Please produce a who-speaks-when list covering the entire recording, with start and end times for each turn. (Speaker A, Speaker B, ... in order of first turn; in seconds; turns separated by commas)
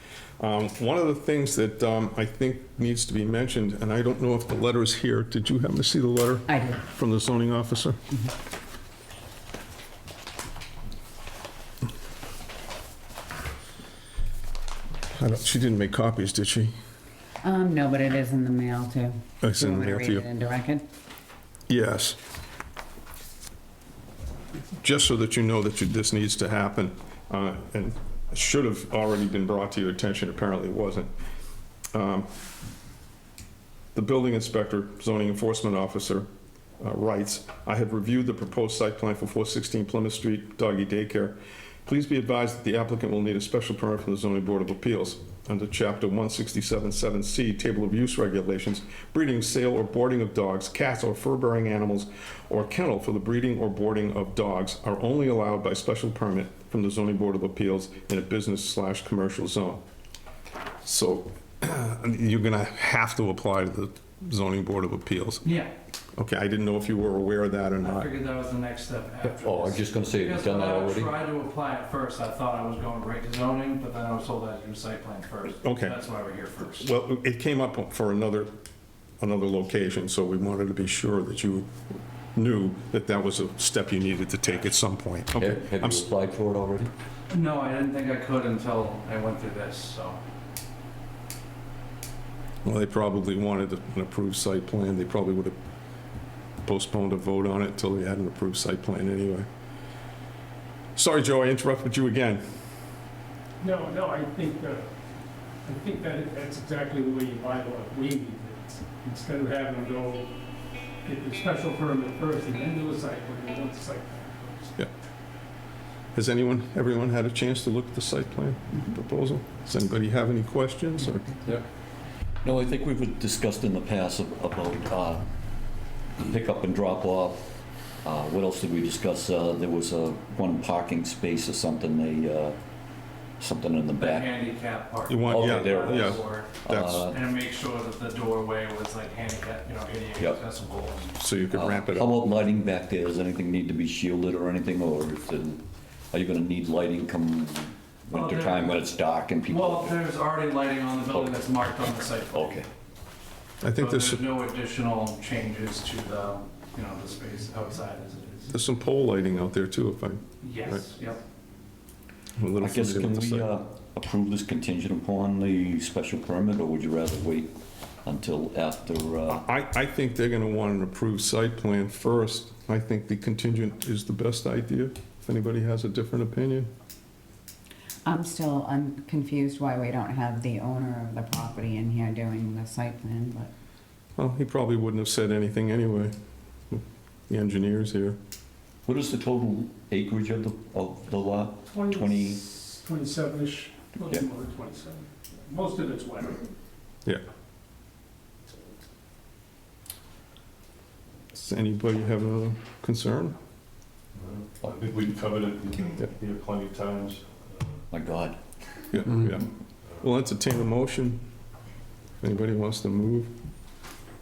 Speaker A: 0.4-8.0, Speaker B: 6.5-6.8, Speaker A: 15.1-16.7, Speaker B: 17.4-20.8, Speaker A: 19.4-20.2, Speaker A: 21.7-22.2, Speaker A: 24.8-31.1, Speaker A: 31.9-32.3, Speaker A: 33.9-36.3, Speaker A: 36.8-59.8, Speaker A: 60.8-65.4, Speaker C: 65.4-65.7, Speaker A: 66.2-68.1, Speaker C: 67.8-76.9, Speaker D: 69.3-71.1, Speaker A: 75.6-76.0, Speaker A: 76.8-78.5, Speaker A: 79.2-81.7, Speaker A: 82.3-86.1, Speaker D: 85.4-86.9, Speaker C: 87.3-90.2, Speaker A: 92.6-95.6, Speaker A: 96.7-99.5, Speaker A: 101.0-102.4, Speaker E: 103.6-104.8, Speaker E: 105.6-110.3, Speaker E: 111.0-114.7, Speaker A: 116.2-121.3, Speaker D: 122.4-125.3, Speaker D: 126.2-127.5, Speaker D: 128.0-132.6, Speaker D: 133.4-134.3, Speaker C: 134.0-136.5, Speaker A: 135.1-137.1, Speaker D: 135.2-137.2, Speaker C: 137.0-141.1, Speaker A: 141.2-142.2, Speaker D: 141.5-150.0, Speaker C: 148.1-148.8, Speaker C: 149.4-152.6, Speaker D: 151.1-151.7, Speaker D: 152.3-152.7, Speaker A: 153.6-154.2, Speaker C: 153.8-158.5, Speaker A: 158.5-160.8, Speaker C: 160.4-161.2, Speaker A: 162.4-163.5, Speaker D: 162.6-167.5, Speaker D: 168.0-169.4, Speaker A: 169.3-176.7, Speaker B: 178.0-183.5, Speaker A: 184.2-186.1, Speaker A: 186.7-188.2, Speaker D: 188.8-192.4, Speaker E: 191.7-192.1, Speaker E: 192.7-196.4, Speaker A: 201.3-203.3, Speaker F: 204.2-207.4, Speaker D: 207.9-208.4, Speaker A: 208.9-211.2, Speaker A: 212.2-213.3